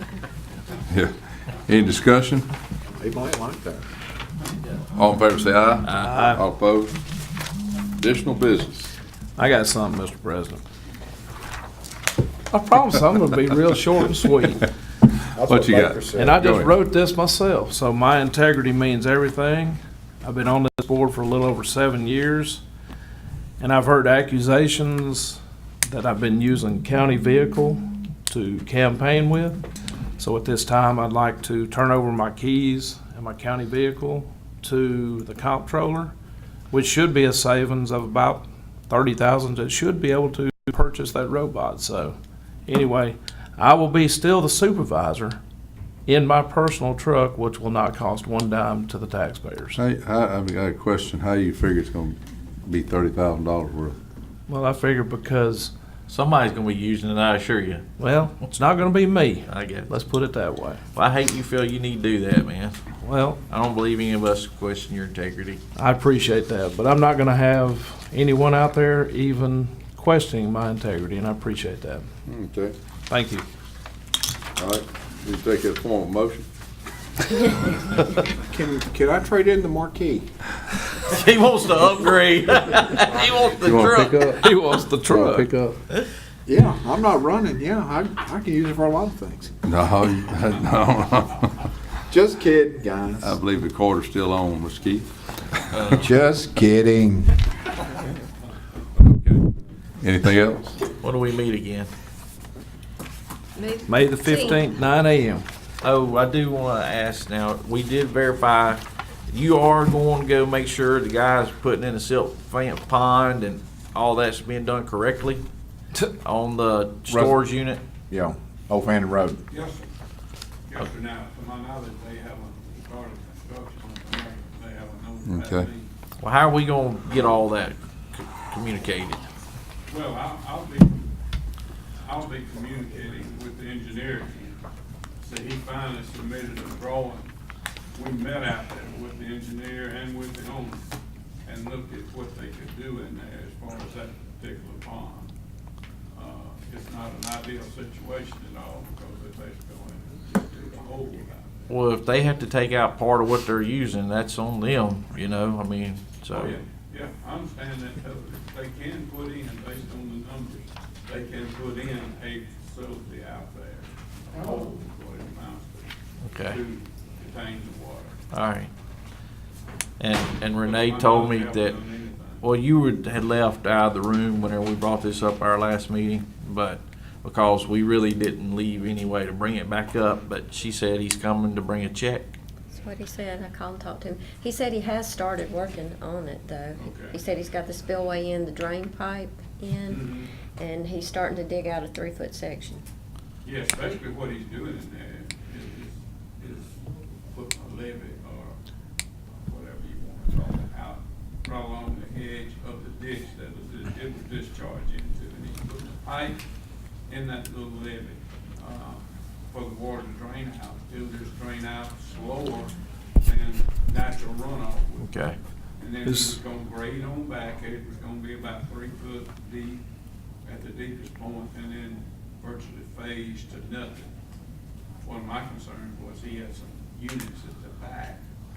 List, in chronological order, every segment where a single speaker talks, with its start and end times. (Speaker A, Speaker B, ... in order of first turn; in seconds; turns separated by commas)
Speaker A: 0.9-2.5, Speaker B: 3.0-3.8, Speaker A: 4.9-7.0, Speaker C: 5.9-6.4, Speaker A: 8.0-8.9, Speaker C: 9.4-10.6, Speaker C: 12.5-14.7, Speaker B: 15.3-16.4, Speaker A: 15.5-16.8, Speaker C: 16.1-22.6, Speaker C: 23.6-29.6, Speaker C: 30.2-36.1, Speaker C: 36.7-42.1, Speaker C: 42.7-45.4, Speaker C: 46.1-49.8, Speaker A: 49.8-54.0, Speaker C: 54.5-55.7, Speaker D: 56.1-57.9, Speaker C: 58.0-60.8, Speaker D: 59.5-59.9, Speaker D: 60.9-62.8, Speaker C: 63.0-63.4, Speaker D: 63.5-65.6, Speaker C: 65.7-72.0, Speaker A: 72.3-72.7, Speaker C: 73.1-73.4, Speaker A: 74.6-76.5, Speaker A: 77.4-77.7, Speaker B: 78.4-80.3, Speaker D: 81.0-84.6, Speaker A: 83.6-84.5, Speaker C: 84.4-85.8, Speaker B: 85.1-85.5, Speaker B: 86.5-89.5, Speaker A: 89.6-91.6, Speaker B: 92.1-93.4, Speaker A: 93.2-96.1, Speaker B: 95.9-97.3, Speaker A: 99.0-100.7, Speaker D: 101.0-101.9, Speaker E: 103.5-104.6, Speaker C: 103.9-105.4, Speaker D: 105.8-115.4, Speaker D: 116.2-117.8, Speaker B: 117.1-117.4, Speaker B: 118.1-119.4, Speaker F: 119.5-119.9, Speaker F: 120.7-125.9, Speaker A: 125.2-125.7, Speaker D: 126.2-129.2, Speaker F: 129.9-131.1, Speaker F: 132.1-134.6, Speaker F: 135.2-137.3, Speaker F: 137.9-140.8, Speaker F: 141.4-145.3, Speaker F: 146.1-151.7, Speaker D: 151.7-156.5, Speaker F: 156.3-168.2, Speaker B: 164.3-164.7, Speaker D: 166.2-166.6, Speaker D: 168.3-168.7, Speaker D: 170.0-171.8, Speaker F: 170.6-172.4, Speaker D: 172.4-182.3, Speaker E: 182.7-192.8, Speaker F: 186.8-187.2, Speaker F: 189.9-190.3, Speaker F: 193.4-198.6, Speaker F: 199.3-206.4, Speaker F: 207.1-215.1, Speaker D: 215.0-215.4, Speaker F: 215.8-219.8, Speaker C: 216.0-216.4, Speaker F: 220.4-224.1, Speaker F: 225.0-228.2